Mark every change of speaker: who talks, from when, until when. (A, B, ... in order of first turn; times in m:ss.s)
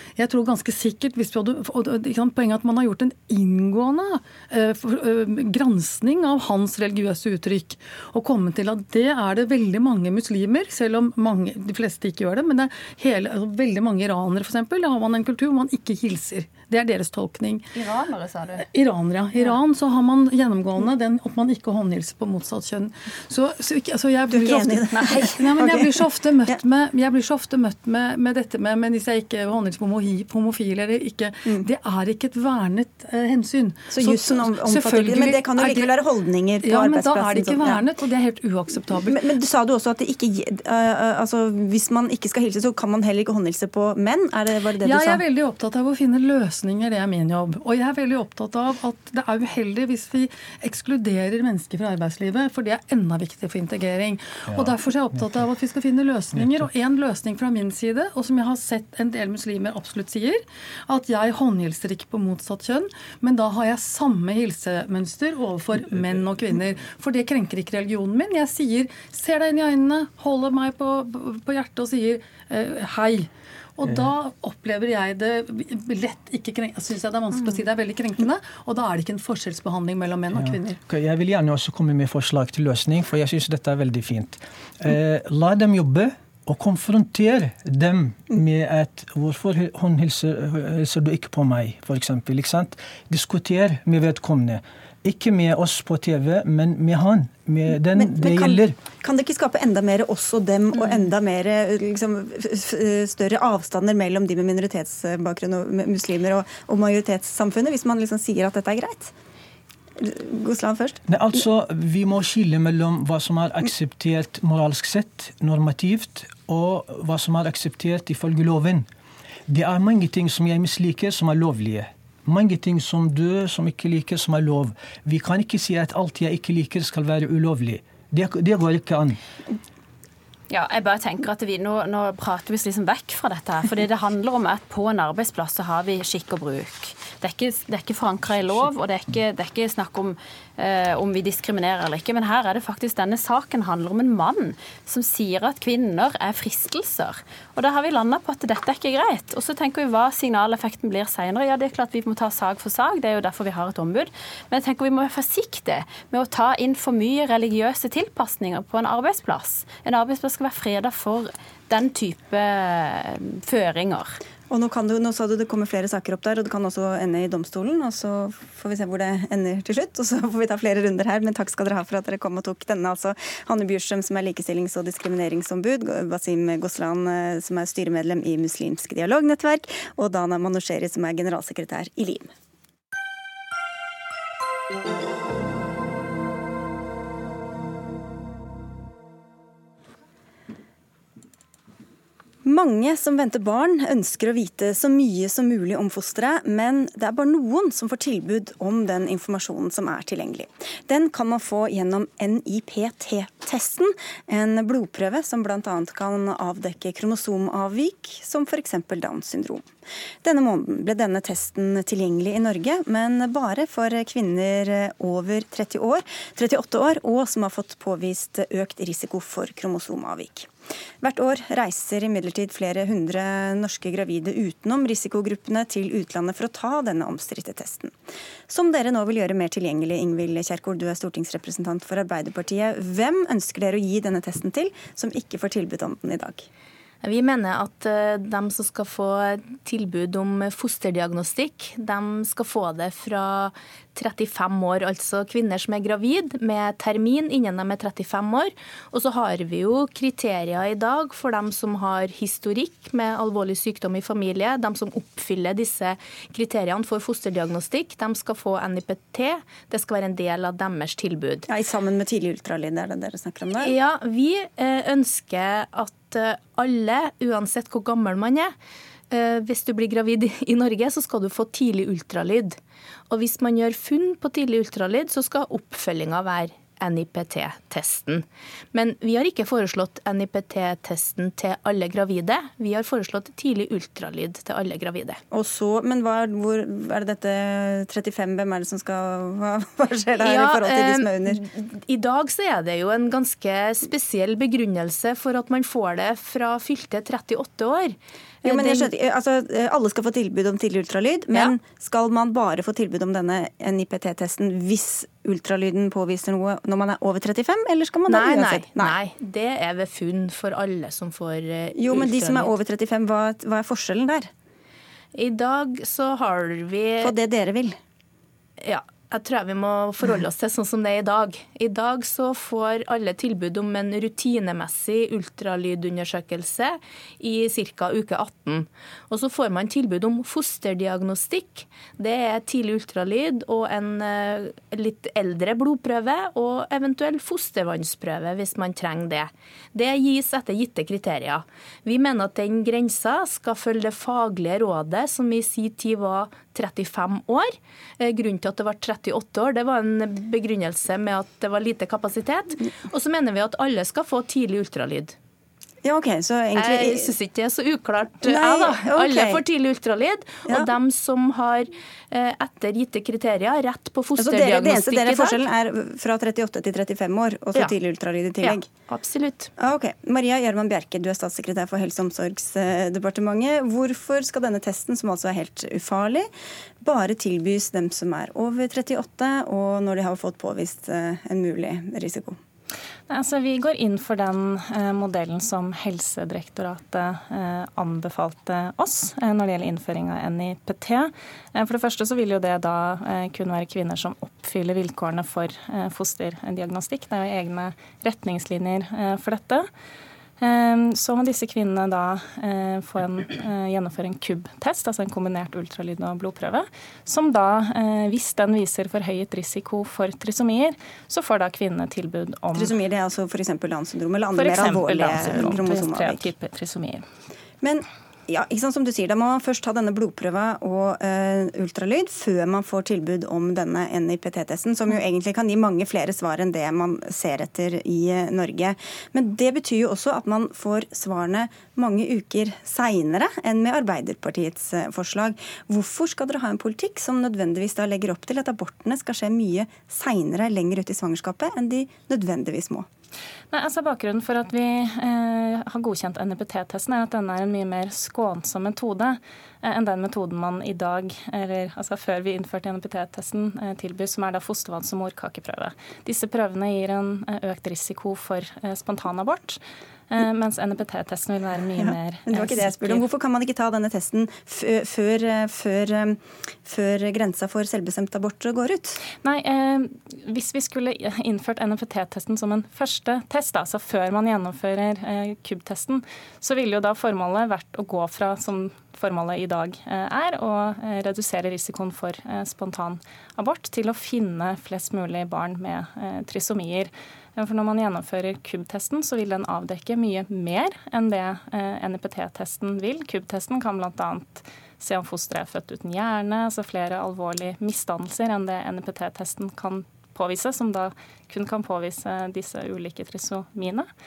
0:00.2-0:17.6 A
0:17.8-0:18.6 B
0:18.6-0:36.0 A
0:24.3-0:26.6 C
0:33.9-0:37.8 C
0:36.6-0:39.3 A
0:39.0-0:45.2 C
0:44.8-1:20.8 A
0:54.5-0:55.4 D
0:56.3-0:56.7 D
1:20.3-1:38.8 D
1:37.9-1:49.1 C
1:50.0-1:51.0 C
1:51.1-1:58.8 D
1:59.5-2:09.2 D
2:10.5-2:44.2 B
2:44.5-3:02.3 C
3:12.4-3:29.7 C
3:30.2-3:40.5 C
3:41.0-3:47.9 C
3:48.5-3:56.5 C
3:57.0-4:21.5 E
4:21.5-4:23.7 C
4:23.6-4:28.5 E
4:29.1-4:32.6 E
4:33.1-4:45.2 E
4:45.3-4:51.4 C
4:50.2-4:58.9 E
4:58.4-5:08.9 C
5:08.1-5:12.5 E
5:11.8-5:14.3 C
5:15.1-5:17.1 E
5:17.0-5:17.8 C
5:18.6-5:55.1 E
5:55.8-5:57.1 C
5:56.5-6:05.4 E
5:58.2-5:59.4 C
6:04.2-6:08.7 C
6:08.4-6:09.5 E
6:09.6-6:16.3 C
6:16.8-6:22.4 C
6:23.1-6:39.7 F
6:40.4-6:52.8 F
6:52.5-6:56.2 C
6:54.3-6:57.0 F
6:57.6-7:22.8 C
7:23.5-7:43.0 F
7:41.8-7:49.0 C
7:49.2-8:23.9 F